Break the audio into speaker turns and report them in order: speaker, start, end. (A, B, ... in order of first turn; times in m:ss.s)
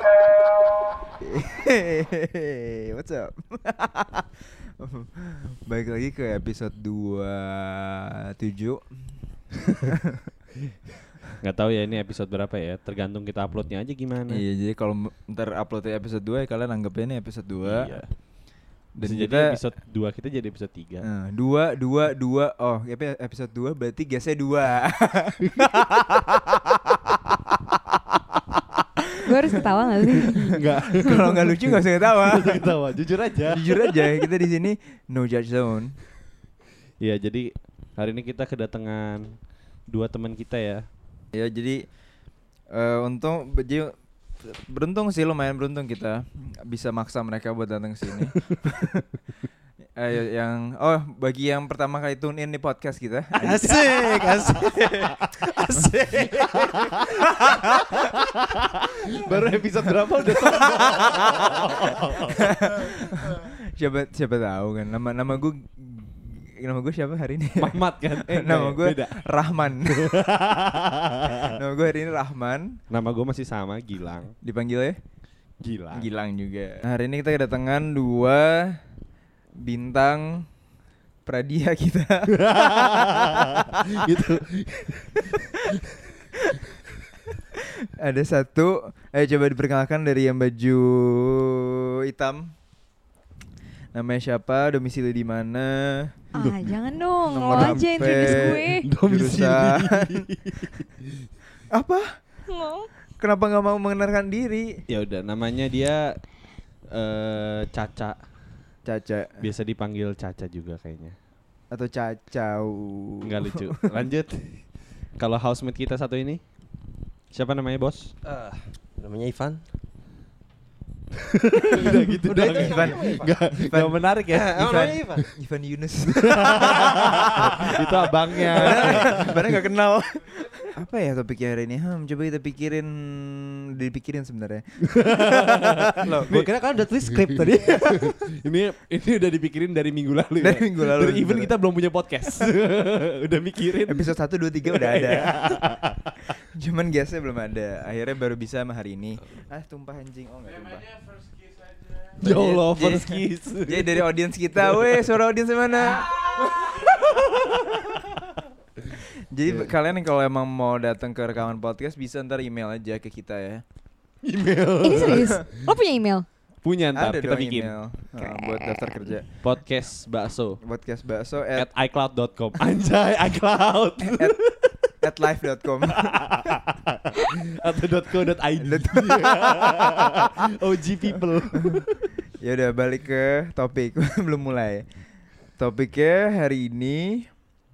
0:01.2-0:08.8 A
0:09.8-0:10.2 A
0:11.4-0:14.4 B
0:14.3-0:17.9 A
0:17.6-0:18.2 B
0:19.0-0:19.6 A
0:19.0-0:21.1 B
0:21.0-0:26.4 A
0:25.5-0:26.4 B
0:29.2-0:30.5 C
0:30.2-0:34.2 B
0:31.0-0:32.7 A
0:33.5-0:36.0 A
0:37.0-0:39.3 B
0:39.9-0:40.8 B
0:41.3-0:42.0 A
0:42.7-0:49.0 A
0:50.0-0:53.9 A
0:53.4-0:57.2 D
0:53.6-0:55.2 B
0:55.7-1:03.0 B
0:59.2-1:10.2 A
1:07.6-1:09.2 B
1:09.8-1:11.4 B
1:11.4-1:12.8 A
1:12.9-1:14.3 B
1:14.4-1:15.0 A
1:15.6-1:16.1 B
1:15.9-1:18.8 A
1:19.6-1:20.5 A
1:21.2-1:23.6 A
1:22.3-1:25.7 B
1:28.0-1:32.5 A
1:33.9-1:36.1 A
1:36.3-1:38.9 C
1:36.4-1:36.8 B
1:37.4-1:40.2 A
1:37.5-1:40.9 B
1:41.7-1:42.2 A
1:42.5-1:42.9 C
1:43.2-1:44.8 A
1:44.9-1:46.1 B
1:46.9-1:48.2 B
1:48.8-1:49.4 A
1:49.4-1:51.1 B
1:51.7-1:53.7 A
1:53.2-1:56.4 B
1:57.3-1:58.1 B
1:58.2-1:59.6 D
2:01.3-2:05.2 B
2:01.9-2:03.4 D
2:02.5-2:04.0 A
2:04.3-2:05.2 D
2:04.6-2:16.3 A
2:06.2-2:09.6 B
2:14.9-2:16.5 B
2:16.0-2:18.1 D
2:17.4-2:24.1 B
2:20.4-2:21.5 A
2:23.8-2:25.4 A
2:24.7-2:26.1 B
2:26.5-2:30.9 A
2:32.2-2:35.0 B
2:32.2-2:36.4 A
2:36.0-2:37.8 B
2:39.3-2:43.6 A
2:39.4-2:39.7 B
2:44.2-2:45.5 B
2:44.8-2:46.2 C
2:44.9-2:45.4 A
2:46.6-2:47.7 B
2:46.9-2:49.3 A
2:48.2-2:49.2 C
2:49.4-2:50.6 B
2:50.6-2:51.6 A
2:51.6-2:54.9 B
2:54.1-2:54.4 A
2:55.0-2:56.6 A
2:55.9-3:02.1 B
2:58.6-3:00.1 A
3:02.4-3:04.9 A
3:05.6-3:07.3 A